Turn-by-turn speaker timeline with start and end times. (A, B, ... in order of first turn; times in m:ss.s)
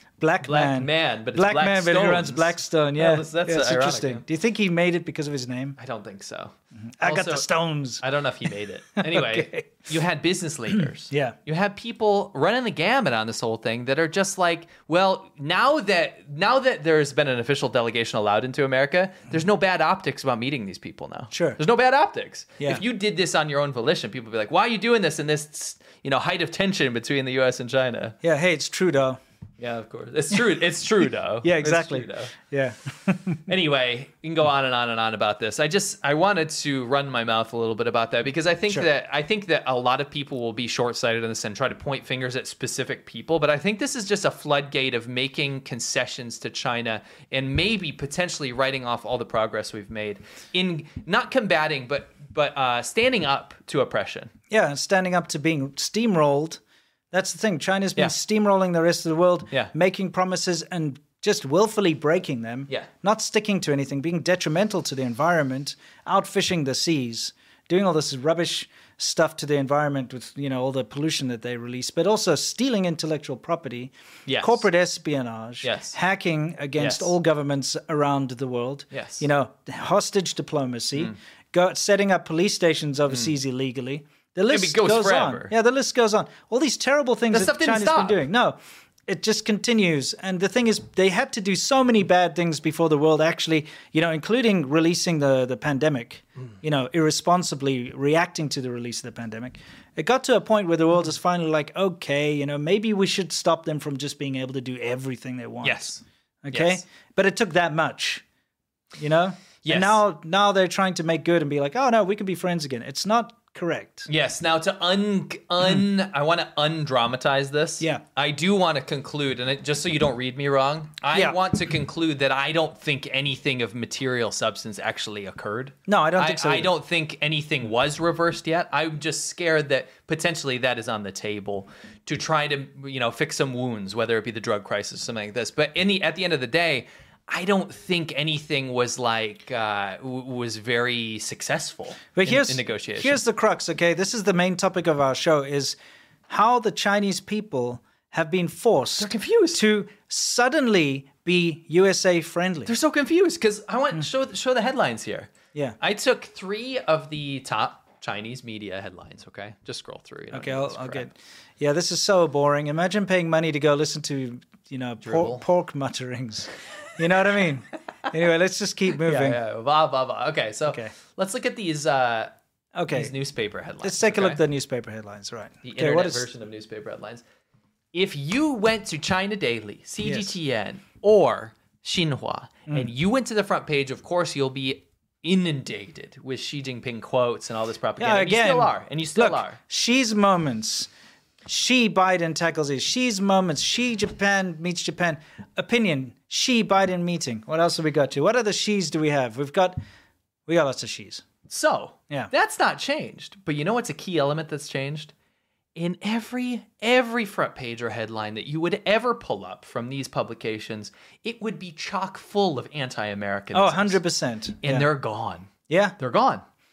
0:00.2-0:05.8 A
0:00.4-0:04.2 B
0:05.8-0:07.5 B
0:07.0-0:08.0 A
0:08.0-0:28.2 B
0:09.0-0:09.7 A
0:11.1-0:11.3 A
0:21.3-0:21.6 A
0:28.2-0:29.2 A
0:29.6-0:32.3 B
0:31.4-0:33.4 A
0:33.5-0:54.3 B
0:54.5-0:56.6 A
0:57.1-1:45.9 A
1:14.3-1:14.6 B
1:15.6-1:16.0 B
1:16.8-1:17.1 B
1:18.9-1:19.3 B
1:24.5-1:25.5 B
1:27.3-1:28.2 B
1:45.6-1:46.8 B
1:46.4-1:48.2 A
1:49.0-1:54.1 A
1:49.6-1:50.0 B
1:54.1-2:23.2 B
2:05.9-2:06.7 A
2:22.1-2:32.7 A
2:29.0-2:29.6 B
2:32.7-2:41.1 B
2:40.3-2:49.4 A
2:45.0-2:45.4 B
2:49.0-2:52.3 B
2:50.7-2:50.9 A
2:52.7-2:53.1 A
2:52.9-2:54.4 B
2:53.8-2:56.3 A
2:55.6-2:57.2 B
2:57.9-3:09.6 B
3:00.0-3:00.4 A
3:08.0-3:10.9 A
3:11.4-3:19.8 A
3:20.5-3:21.2 A
3:21.5-3:25.1 B
3:25.8-3:34.0 B
3:33.5-3:34.9 A
3:34.6-3:36.4 B
3:35.7-3:36.0 A